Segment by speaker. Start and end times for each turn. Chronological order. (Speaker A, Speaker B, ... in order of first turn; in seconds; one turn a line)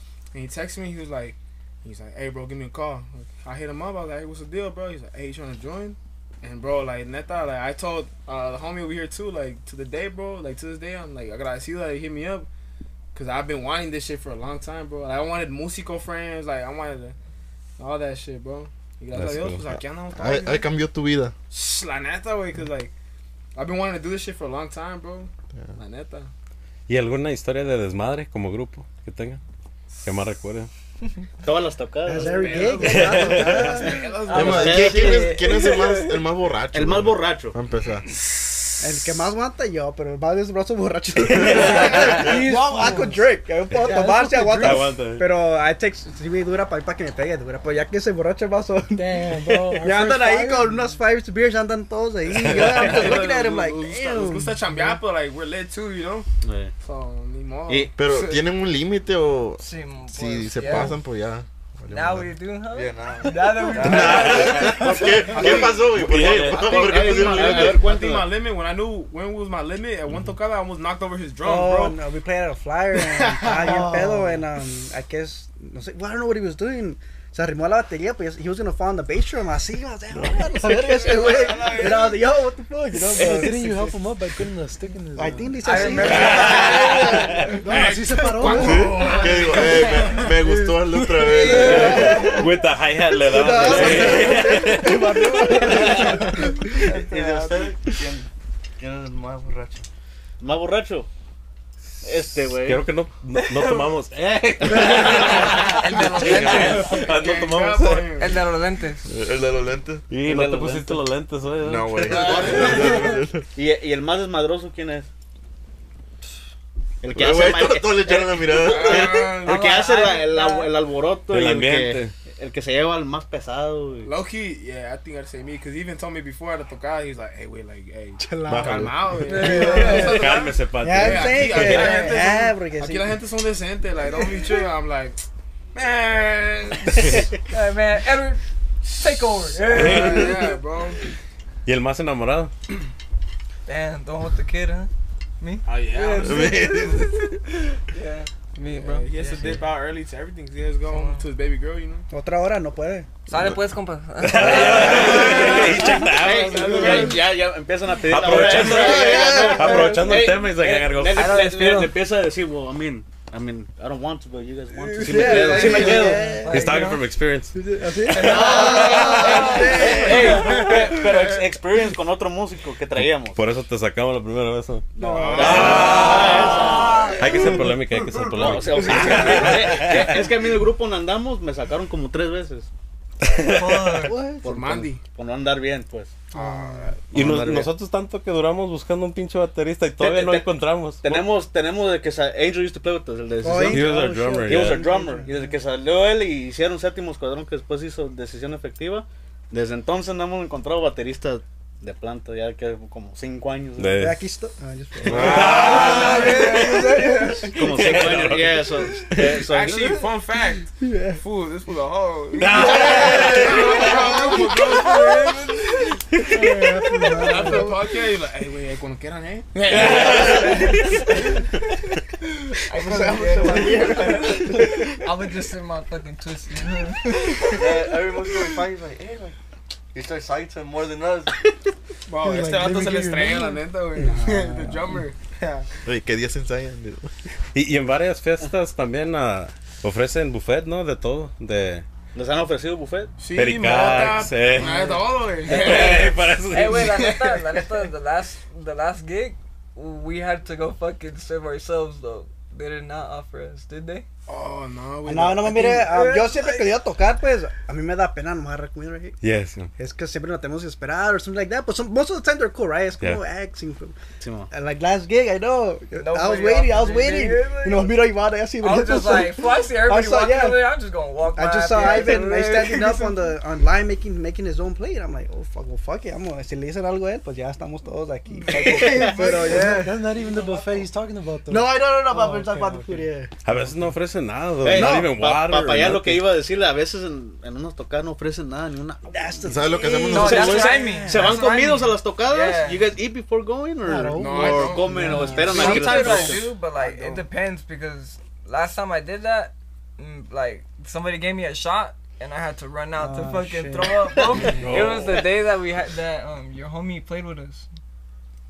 Speaker A: 0.3-12.5
Speaker A: 13.1-17.1
Speaker A: 17.8-20.7
Speaker B: 19.1-19.7
Speaker C: 20.1-21.3
Speaker A: 21.5-22.9
Speaker A: 23.5-26.3
Speaker B: 26.9-29.4
Speaker B: 30.0-30.7
Speaker D: 31.4-32.8
Speaker E: 32.0-34.1
Speaker A: 32.1-34.9
Speaker B: 32.8-33.9
Speaker F: 34.2-36.2
Speaker C: 34.3-38.1
Speaker D: 34.3-35.4
Speaker D: 36.7-37.6
Speaker E: 38.8-54.9
Speaker G: 41.4-44.9
Speaker B: 44.6-45.3
Speaker G: 48.9-50.9
Speaker A: 52.4-56.3
Speaker D: 56.4-56.7
Speaker A: 56.8-58.5
Speaker D: 57.7-57.9
Speaker C: 58.0-62.4
Speaker F: 59.6-61.0
Speaker F: 61.9-65.3
Speaker H: 62.7-65.4
Speaker C: 63.7-67.8
Speaker B: 64.0-64.8
Speaker D: 64.9-65.8
Speaker A: 65.3-65.7
Speaker B: 65.9-66.8
Speaker D: 66.4-68.3
Speaker A: 66.6-72.0
Speaker E: 71.4-84.0
Speaker A: 73.1-73.9
Speaker G: 73.6-74.4
Speaker A: 80.5-82.2
Speaker G: 83.1-86.2
Speaker E: 85.2-87.7
Speaker F: 85.6-87.0
Speaker A: 85.8-90.3
Speaker B: 86.0-87.5
Speaker G: 87.5-89.1
Speaker C: 88.5-92.3
Speaker A: 91.2-91.9
Speaker E: 91.4-92.5
Speaker B: 91.5-95.5
Speaker E: 93.2-96.8
Speaker D: 95.7-96.1
Speaker H: 96.8-99.9
Speaker A: 96.8-97.7
Speaker D: 100.4-101.1
Speaker D: 102.0-102.9
Speaker B: 102.2-108.1
Speaker D: 104.6-105.3
Speaker F: 104.8-107.0
Speaker A: 105.2-108.4
Speaker F: 108.2-109.0
Speaker C: 109.1-110.1
Speaker B: 110.1-112.4
Speaker D: 110.2-111.1
Speaker C: 111.6-113.5
Speaker A: 112.1-113.0
Speaker D: 112.1-115.1
Speaker D: 117.0-118.4
Speaker C: 117.1-119.4
Speaker A: 118.5-119.9
Speaker D: 119.0-124.1
Speaker F: 119.4-120.7
Speaker B: 121.3-122.1
Speaker A: 124.0-135.2
Speaker E: 128.2-130.2
Speaker C: 128.5-128.9
Speaker F: 129.2-130.4
Speaker B: 130.1-132.0
Speaker E: 130.8-133.1
Speaker A: 135.7-137.3
Speaker B: 137.0-137.2
Speaker F: 137.5-140.4
Speaker A: 139.6-141.0
Speaker B: 139.7-140.5
Speaker B: 141.7-142.5
Speaker F: 143.7-147.3
Speaker A: 145.7-146.6
Speaker C: 146.2-147.3
Speaker F: 147.9-149.7
Speaker A: 148.7-152.1
Speaker F: 150.9-151.2
Speaker E: 152.1-153.1
Speaker F: 153.3-155.8
Speaker B: 154.2-157.1
Speaker A: 154.8-157.3
Speaker D: 156.1-166.4
Speaker B: 158.0-161.3
Speaker E: 158.3-160.2
Speaker F: 161.2-161.9
Speaker F: 164.9-167.0
Speaker E: 164.9-166.8
Speaker B: 166.4-167.5
Speaker E: 167.5-170.8
Speaker F: 168.1-170.7
Speaker D: 168.1-173.4
Speaker B: 168.2-169.3
Speaker A: 169.2-170.8
Speaker B: 172.9-174.9
Speaker E: 175.0-176.2
Speaker A: 175.0-177.1
Speaker D: 175.0-177.2
Speaker B: 175.4-176.6
Speaker F: 176.1-177.2
Speaker E: 176.8-177.7
Speaker B: 177.2-180.3
Speaker D: 178.3-182.7
Speaker A: 178.8-179.4
Speaker E: 178.9-179.3
Speaker B: 183.2-184.1
Speaker F: 183.4-184.2
Speaker E: 184.1-184.4
Speaker A: 184.1-185.0
Speaker D: 184.4-186.2
Speaker E: 186.3-186.9
Speaker A: 186.3-187.0
Speaker B: 187.1-191.3
Speaker D: 187.1-187.7
Speaker D: 190.0-204.1
Speaker E: 193.4-195.5
Speaker B: 193.6-194.9
Speaker B: 203.8-204.2
Speaker E: 204.0-207.6
Speaker B: 205.0-206.7
Speaker C: 205.1-205.5
Speaker A: 205.2-207.0
Speaker F: 205.4-207.3
Speaker D: 207.5-210.0
Speaker B: 207.5-209.4
Speaker A: 209.3-215.8
Speaker E: 210.8-211.2
Speaker B: 212.3-214.1
Speaker E: 212.6-214.3
Speaker F: 213.1-215.3
Speaker E: 216.3-217.8
Speaker G: 216.3-217.7
Speaker A: 217.2-220.8
Speaker B: 219.7-220.9
Speaker F: 220.1-221.0
Speaker F: 222.7-227.6
Speaker E: 222.7-224.8
Speaker A: 223.5-224.1
Speaker H: 227.4-229.3
Speaker H: 229.9-231.4
Speaker A: 232.1-235.7
Speaker G: 232.2-233.6
Speaker E: 233.9-235.0
Speaker C: 235.8-237.1
Speaker B: 237.5-241.8
Speaker D: 242.1-243.1
Speaker A: 243.2-247.8
Speaker B: 243.3-244.8
Speaker B: 245.4-247.0
Speaker F: 245.5-245.9
Speaker F: 246.5-254.1
Speaker A: 254.3-255.9
Speaker E: 255.1-259.2
Speaker F: 255.7-256.7
Speaker B: 259.2-259.7
Speaker E: 259.8-264.0
Speaker D: 264.2-264.5
Speaker E: 264.5-270.7
Speaker F: 265.9-268.0
Speaker F: 268.6-273.3
Speaker E: 271.3-280.1
Speaker A: 278.5-279.6
Speaker D: 278.5-279.5
Speaker G: 279.1-283.1
Speaker E: 281.5-283.3
Speaker B: 283.4-286.3
Speaker D: 284.6-289.3
Speaker E: 284.8-285.0
Speaker E: 289.1-291.4
Speaker C: 289.4-290.7
Speaker F: 290.1-292.8
Speaker D: 290.1-296.5
Speaker G: 293.8-295.6
Speaker A: 294.1-297.2
Speaker E: 295.0-296.4
Speaker F: 295.4-307.7
Speaker E: 303.0-304.2
Speaker B: 304.5-305.2